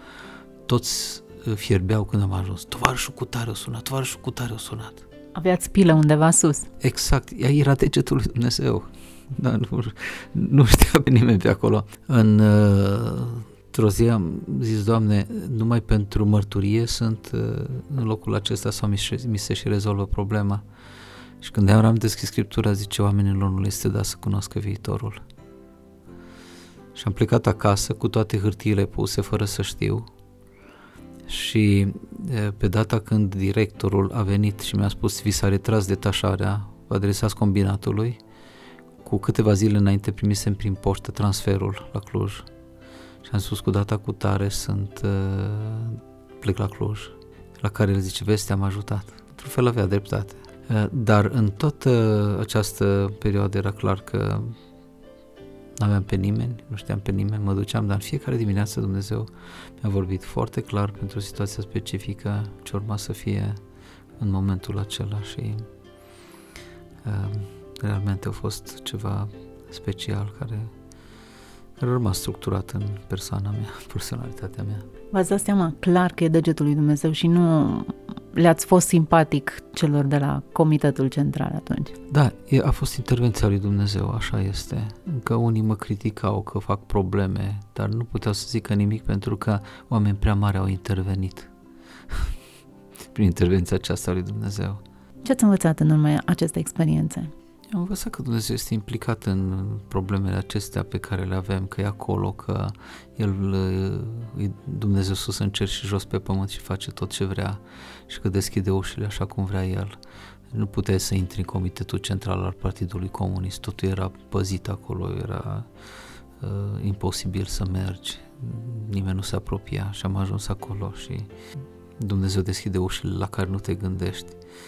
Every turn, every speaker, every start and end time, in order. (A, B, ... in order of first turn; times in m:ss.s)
0:00.7-0:05.0 A
0:05.4-0:06.7 B
0:06.8-0:20.6 A
0:21.4-0:25.2 A
0:27.0-0:30.1 A
0:31.3-0:38.2 A
0:39.0-0:42.5 A
0:43.2-0:54.6 A
0:55.8-0:59.3 A
0:59.8-1:03.6 A
1:04.2-1:05.7 A
1:07.0-1:10.7 A
1:11.8-1:14.9 A
1:15.1-1:22.0 B
1:22.1-1:31.5 A
1:33.1-1:34.8 A
1:35.2-1:37.3 B
1:37.7-1:50.0 A
1:50.5-1:55.7 A
1:56.4-2:01.3 A
2:02.0-2:04.4 A